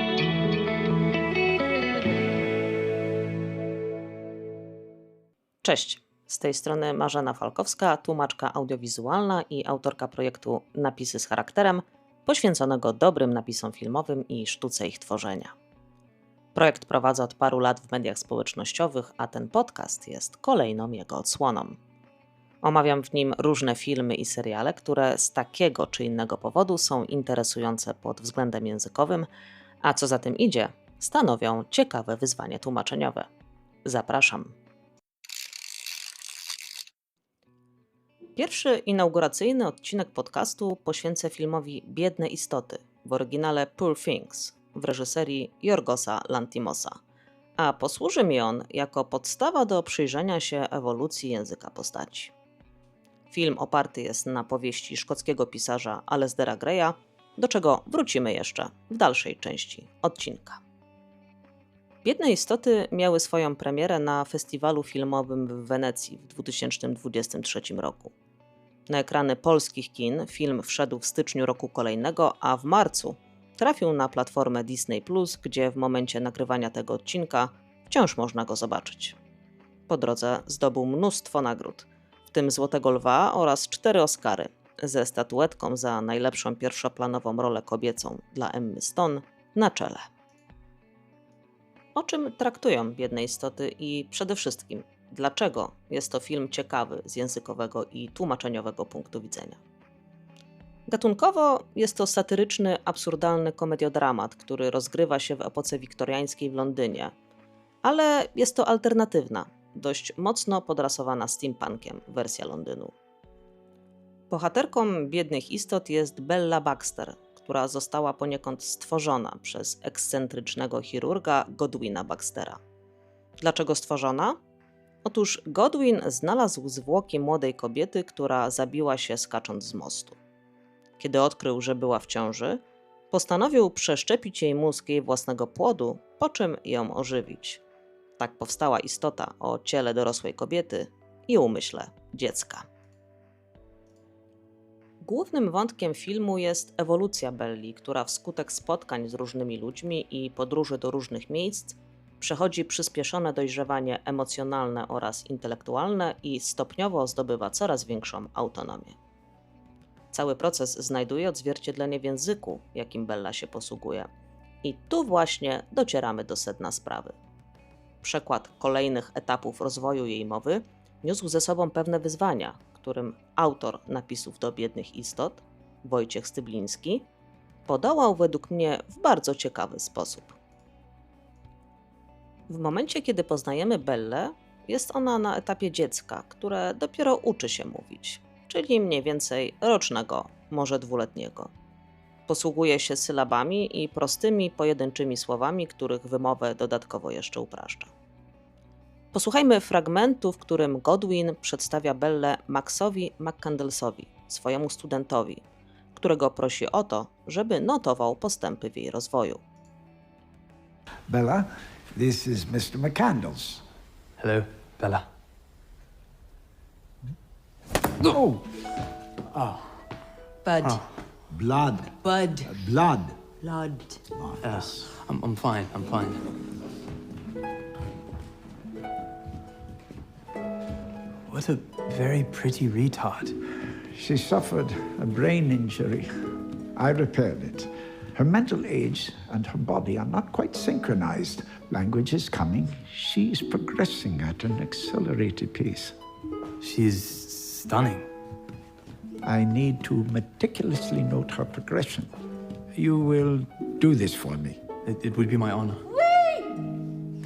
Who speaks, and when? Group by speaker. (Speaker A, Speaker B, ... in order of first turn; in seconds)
Speaker A: 5.6-15.5, 16.6-21.8, 22.6-29.3, 29.8-33.3, 33.9-34.5, 38.4-47.0, 47.6-52.3, 53.3-60.6, 62.0-68.1, 68.9-79.2, 79.9-90.1, 92.0-99.6, 100.9-107.1, 107.8-112.9, 114.3-122.6, 123.4-124.4, 125.0-130.2, 131.0-137.6, 138.2-142.7, 145.0-159.0, 160.1-164.1, 164.6-167.2, 168.0-177.1, 177.7-180.4, 182.5-191.5, 192.3-197.9, 199.1-205.4, 205.9-209.4
Speaker B: 211.1-213.6, 221.3-223.2, 233.9-236.1, 236.8-245.9, 249.2-252.1, 252.7-254.6
Speaker C: 214.2-215.1, 224.4-226.2, 231.3-233.4, 246.6-248.1, 254.8-255.9
Speaker D: 220.4-220.8, 222.0-222.6, 223.4-224.0, 255.9-256.6